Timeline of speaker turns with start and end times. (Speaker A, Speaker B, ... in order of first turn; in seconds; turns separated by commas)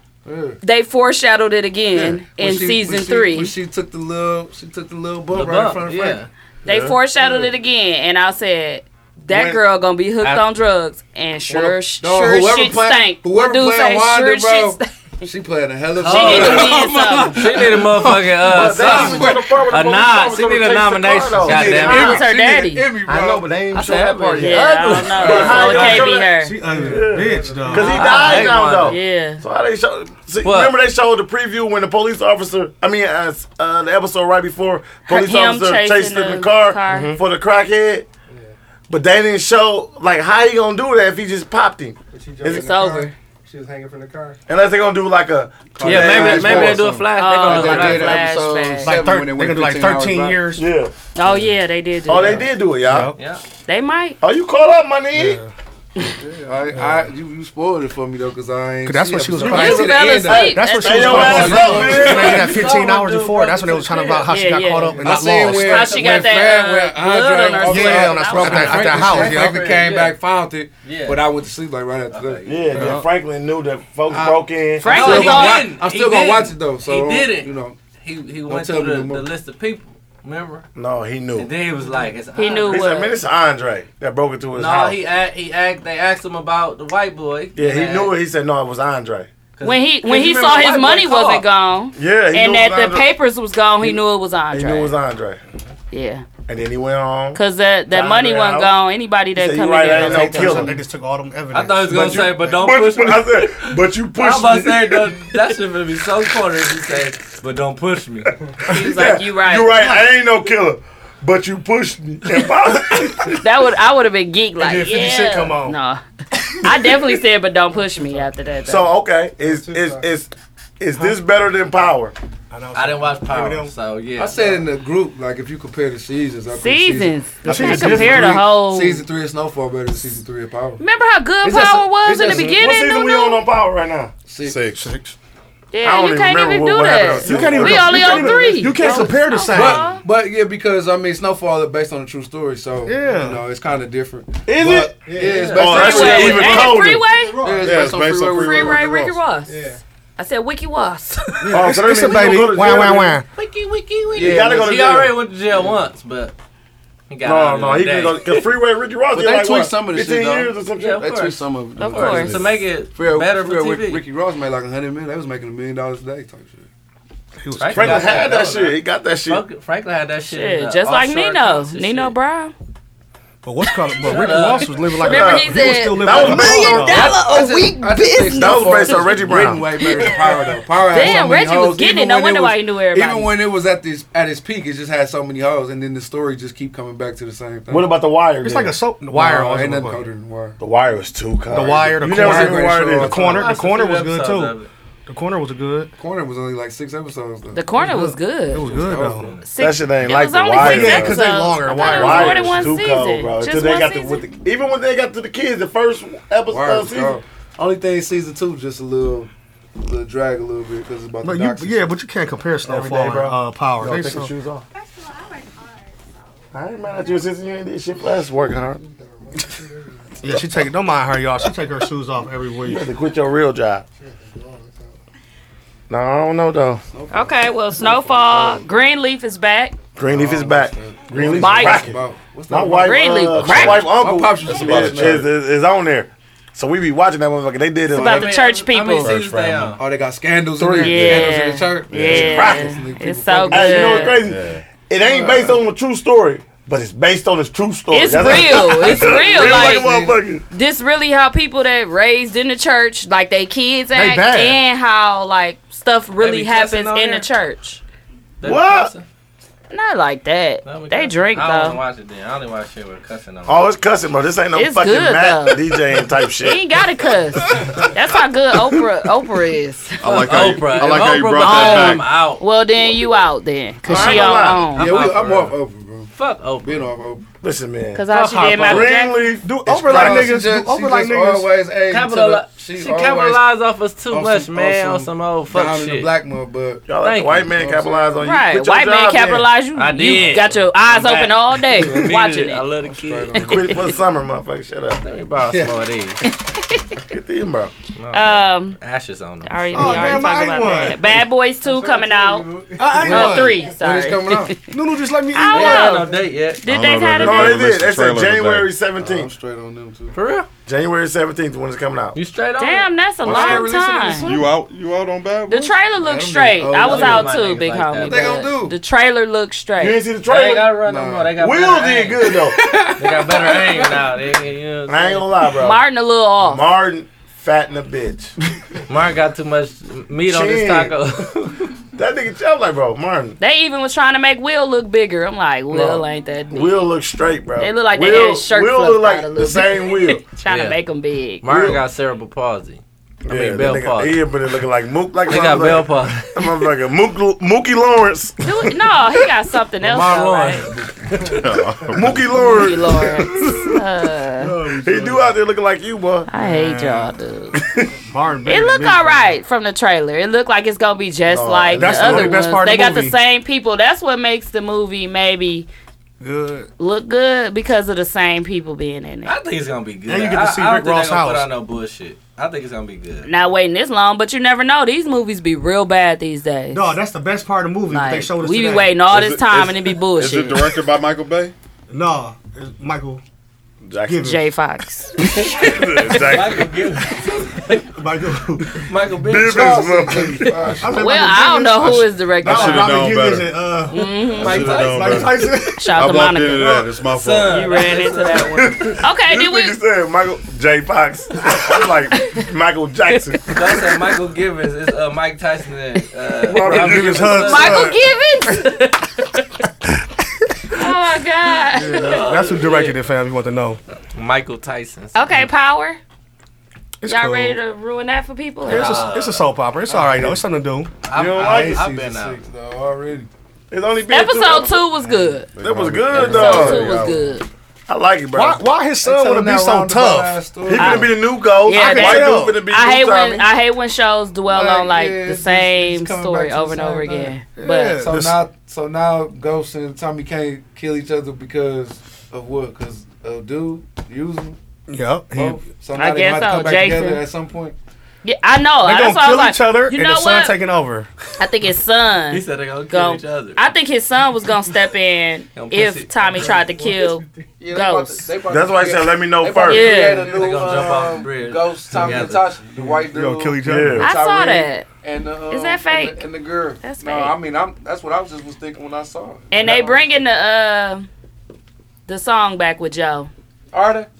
Speaker A: 0.2-0.6, Speaker B: 0.6-3.5, Speaker A: 1.9-6.2, Speaker C: 5.3-6.3, Speaker B: 6.6-15.2, Speaker D: 6.7-7.0, Speaker A: 7.2-7.5, Speaker A: 9.3-9.6, Speaker A: 11.5-19.5, Speaker C: 16.0-22.2, Speaker B: 16.0-17.4, Speaker D: 18.4-22.2, Speaker A: 21.3-23.5, Speaker B: 21.8-22.8, Speaker E: 23.1-24.5, Speaker D: 23.4-26.3, Speaker C: 23.7-26.2, Speaker B: 24.4-26.5, Speaker F: 26.4-28.0, Speaker E: 26.6-28.5, Speaker D: 26.9-38.1, Speaker C: 27.8-29.0, Speaker B: 28.8-29.4, Speaker C: 30.4-30.7, Speaker B: 35.1-37.2, Speaker E: 38.3-38.5, Speaker D: 38.9-42.6, Speaker E: 42.1-44.4, Speaker B: 42.4-43.1, Speaker D: 44.5-46.8, Speaker A: 45.7-50.5, Speaker C: 45.8-48.3, Speaker B: 47.1-49.0, Speaker F: 48.8-50.6, Speaker D: 50.5-50.9, Speaker B: 51.1-52.5, Speaker D: 52.1-53.1, Speaker F: 52.9-53.1, Speaker C: 53.1-53.4, Speaker B: 53.7-54.2, Speaker D: 54.2-55.4, Speaker F: 55.1-55.5, Speaker A: 56.2-62.6, Speaker F: 56.7-57.1, Speaker F: 58.8-65.9, Speaker D: 59.4-62.6, Speaker B: 59.5-61.8, Speaker C: 61.6-64.3, Speaker B: 64.3-69.2, Speaker A: 65.0-73.0, Speaker C: 65.3-66.4, Speaker F: 67.6-69.6, Speaker C: 69.1-70.2, Speaker C: 70.8-71.2, Speaker C: 72.1-72.9, Speaker D: 72.4-75.0, Speaker F: 72.7-73.0, Speaker A: 74.1-77.8, Speaker B: 74.8-75.7, Speaker C: 74.8-80.6, Speaker A: 78.5-79.3, Speaker D: 80.8-81.5, Speaker C: 81.4-82.8, Speaker B: 82.3-83.1, Speaker D: 82.7-85.0, Speaker C: 84.5-88.1, Speaker D: 87.5-89.3, Speaker C: 89.6-91.3, Speaker B: 89.6-94.9, Speaker D: 90.0-91.4, Speaker D: 91.9-93.1, Speaker D: 94.5-95.4, Speaker B: 95.9-96.2, Speaker D: 96.5-97.4, Speaker B: 97.3-100.6, Speaker D: 97.9-98.8, Speaker D: 99.3-100.8, Speaker F: 99.9-102.6, Speaker A: 100.1-100.7, Speaker C: 101.5-108.3, Speaker D: 101.9-105.1, Speaker D: 108.7-113.3, Speaker B: 108.7-110.0, Speaker B: 113.3-116.0, Speaker F: 114.6-115.8, Speaker B: 116.6-118.9, Speaker D: 118.7-122.1, Speaker E: 119.4-120.1, Speaker F: 122.5-123.7, Speaker C: 122.7-124.6, Speaker A: 124.2-130.8, Speaker B: 126.5-129.0, Speaker F: 127.4-128.4, Speaker B: 130.8-133.4, Speaker A: 131.4-132.6, Speaker D: 132.3-134.1, Speaker A: 134.3-134.6, Speaker G: 134.4-135.1, Speaker F: 134.8-135.0, Speaker B: 135.7-140.0, Speaker D: 135.8-138.4, Speaker F: 137.2-140.0, Speaker A: 137.4-146.6, Speaker F: 142.8-143.4, Speaker D: 144.4-144.9, Speaker E: 145.0-147.9, Speaker C: 145.2-146.8, Speaker D: 145.5-147.1, Speaker B: 145.7-147.4, Speaker A: 147.4-148.9, Speaker G: 147.6-149.2, Speaker B: 148.4-149.6, Speaker E: 149.4-149.8, Speaker B: 150.2-151.3, Speaker F: 151.4-153.2, Speaker D: 151.5-153.2, Speaker C: 153.4-156.3, Speaker A: 154.1-154.9, Speaker D: 154.1-155.2, Speaker C: 157.1-158.5, Speaker D: 157.2-161.1, Speaker A: 159.1-166.7, Speaker C: 160.7-164.0, Speaker B: 161.8-162.4, Speaker D: 162.0-162.4, Speaker F: 167.4-168.2, Speaker C: 167.6-172.1, Speaker D: 167.7-169.4, Speaker B: 170.3-172.5, Speaker F: 173.4-177.3, Speaker C: 174.0-174.8, Speaker B: 175.0-176.7, Speaker D: 175.0-177.2, Speaker A: 176.4-187.9, Speaker D: 178.3-179.6, Speaker B: 180.9-183.3, Speaker D: 187.7-188.7, Speaker F: 188.4-190.1, Speaker A: 189.1-190.6, Speaker D: 190.6-193.2, Speaker F: 191.5-194.5, Speaker A: 192.0-193.6, Speaker C: 193.2-194.7, Speaker F: 195.1-195.9, Speaker A: 196.0-197.6, Speaker B: 197.5-198.6, Speaker F: 197.8-199.3, Speaker A: 198.6-199.3, Speaker C: 199.1-199.4, Speaker B: 199.4-204.2, Speaker D: 199.6-201.2, Speaker F: 200.5-202.7, Speaker D: 201.7-207.2, Speaker A: 206.5-211.9, Speaker F: 211.2-214.3, Speaker D: 212.6-214.6, Speaker D: 216.5-218.8, Speaker E: 218.5-220.7, Speaker F: 220.2-222.8, Speaker D: 222.6-223.8, Speaker E: 224.0-225.0, Speaker D: 225.9-226.8, Speaker A: 226.9-228.7, Speaker B: 227.1-229.7, Speaker D: 229.9-238.3, Speaker A: 230.1-235.3, Speaker B: 231.3-231.8, Speaker B: 232.8-233.9, Speaker G: 233.4-233.7, Speaker A: 237.9-238.3, Speaker B: 237.9-239.1, Speaker C: 237.9-239.8, Speaker G: 239.0-239.7, Speaker A: 239.8-244.2, Speaker D: 240.6-241.2, Speaker B: 240.8-244.2, Speaker G: 241.9-242.5, Speaker D: 242.2-242.7, Speaker D: 243.5-250.4, Speaker G: 244.2-244.7, Speaker A: 245.0-245.6, Speaker B: 247.9-249.9, Speaker A: 248.7-250.1, Speaker B: 250.5-257.8, Speaker F: 253.9-254.6, Speaker C: 256.2-257.2, Speaker C: 258.4-259.0, Speaker D: 258.4-258.9, Speaker B: 259.7-261.8, Speaker C: 260.6-263.6, Speaker D: 263.4-266.6, Speaker B: 264.5-265.6, Speaker B: 266.4-270.1, Speaker G: 270.0-272.1, Speaker C: 270.0-272.4, Speaker B: 270.9-274.9, Speaker D: 273.9-274.7, Speaker A: 273.9-274.1, Speaker C: 273.9-275.5, Speaker A: 274.7-277.2, Speaker C: 276.1-276.9, Speaker D: 277.4-280.3, Speaker B: 277.9-279.3, Speaker F: 278.1-281.5, Speaker A: 279.8-283.4, Speaker C: 281.9-286.1, Speaker A: 284.1-286.8, Speaker D: 286.9-289.5, Speaker C: 287.0-287.5, Speaker A: 287.4-288.2, Speaker B: 288.2-292.6, Speaker C: 289.8-293.6, Speaker A: 291.7-292.1, Speaker A: 292.8-293.7, Speaker D: 293.4-295.0, Speaker B: 293.5-293.7, Speaker C: 295.0-296.2, Speaker A: 295.4-295.8, Speaker B: 296.5-296.9, Speaker D: 297.1-297.7, Speaker C: 297.9-300.3, Speaker B: 298.1-298.8, Speaker B: 299.4-302.5, Speaker F: 299.7-301.0, Speaker E: 301.6-303.0, Speaker F: 302.8-303.6, Speaker A: 302.9-304.6, Speaker B: 303.0-304.7, Speaker F: 304.7-306.0, Speaker B: 305.3-307.7, Speaker C: 305.5-306.6, Speaker G: 306.6-308.7, Speaker D: 307.2-309.3, Speaker A: 309.0-310.2, Speaker C: 310.1-310.5, Speaker D: 310.6-312.1, Speaker C: 312.1-312.9, Speaker B: 312.6-314.4, Speaker A: 313.2-314.5, Speaker G: 314.2-315.7, Speaker B: 315.5-320.0, Speaker A: 316.0-317.4, Speaker C: 316.7-318.5, Speaker A: 318.0-318.8, Speaker D: 319.8-320.8, Speaker C: 320.2-322.3, Speaker A: 320.8-321.4, Speaker D: 321.4-322.6, Speaker A: 322.3-324.1, Speaker C: 323.0-325.3, Speaker D: 324.9-325.8, Speaker B: 325.6-326.6, Speaker D: 326.4-328.3, Speaker C: 328.9-331.7, Speaker D: 330.3-331.0, Speaker D: 331.9-333.4, Speaker B: 333.4-336.8, Speaker D: 335.7-340.2, Speaker B: 337.6-341.4, Speaker C: 340.5-340.8, Speaker C: 341.4-344.2, Speaker D: 341.4-341.8, Speaker D: 343.2-348.3, Speaker C: 345.3-346.4, Speaker B: 348.4-350.7, Speaker C: 349.8-351.4, Speaker G: 351.2-352.2, Speaker D: 351.9-353.7, Speaker B: 352.3-354.5, Speaker F: 354.4-355.2, Speaker D: 354.6-356.3, Speaker B: 356.3-357.6, Speaker F: 356.3-357.1, Speaker D: 357.5-357.9, Speaker F: 358.1-359.3, Speaker B: 358.4-365.7, Speaker D: 361.3-362.4, Speaker F: 361.7-363.1, Speaker F: 366.2-366.7, Speaker B: 366.8-369.3, Speaker C: 369.2-373.3, Speaker F: 370.1-371.4, Speaker B: 373.2-376.9, Speaker F: 376.7-379.0, Speaker B: 377.9-380.7, Speaker G: 379.1-381.5, Speaker F: 381.9-383.2, Speaker D: 383.8-384.4, Speaker F: 384.1-384.4, Speaker B: 384.2-385.4, Speaker D: 385.4-386.8, Speaker C: 386.1-387.9, Speaker F: 387.9-388.8, Speaker C: 388.8-390.2, Speaker D: 389.2-390.8, Speaker A: 389.6-390.9, Speaker F: 390.1-396.9, Speaker B: 390.9-393.1, Speaker G: 392.4-393.6, Speaker B: 393.9-394.9, Speaker G: 394.4-397.7, Speaker C: 394.4-395.3, Speaker B: 395.7-396.8, Speaker C: 397.1-398.8, Speaker B: 397.4-399.7, Speaker D: 398.6-403.6, Speaker B: 402.2-402.4, Speaker C: 403.5-407.8, Speaker D: 406.4-407.9, Speaker F: 406.5-408.0, Speaker B: 407.3-409.4, Speaker B: 410.7-412.2, Speaker D: 411.7-412.4, Speaker F: 411.9-413.8, Speaker C: 412.0-413.0, Speaker C: 414.1-415.2, Speaker B: 415.1-416.0, Speaker F: 417.0-417.6, Speaker B: 417.0-419.1, Speaker C: 418.6-419.4, Speaker F: 418.6-420.9, Speaker A: 419.9-420.4, Speaker C: 421.0-422.4, Speaker A: 421.1-423.3, Speaker D: 421.1-421.8, Speaker D: 423.7-424.8, Speaker B: 424.1-425.5, Speaker A: 425.0-425.4, Speaker G: 425.5-427.3, Speaker D: 425.6-426.9, Speaker B: 426.1-427.4, Speaker A: 426.2-426.6, Speaker D: 427.9-428.6, Speaker F: 428.3-430.8, Speaker A: 429.0-431.2, Speaker D: 430.7-433.5, Speaker B: 430.8-438.0, Speaker F: 431.7-432.6, Speaker A: 434.5-437.4, Speaker F: 437.6-438.4, Speaker A: 438.0-444.6, Speaker F: 444.9-445.6, Speaker A: 445.3-447.7, Speaker B: 445.9-447.2, Speaker B: 448.2-450.5, Speaker F: 448.8-451.1, Speaker B: 451.4-458.3, Speaker C: 452.3-453.6, Speaker C: 455.6-456.5, Speaker E: 456.4-457.2, Speaker A: 457.6-470.0, Speaker D: 458.5-460.1, Speaker B: 459.6-460.4, Speaker C: 460.2-462.6, Speaker F: 463.1-464.1, Speaker D: 463.6-464.1, Speaker B: 464.0-464.9, Speaker B: 465.5-466.2, Speaker B: 466.8-467.4, Speaker B: 469.5-471.1, Speaker B: 472.1-473.3, Speaker A: 473.7-474.1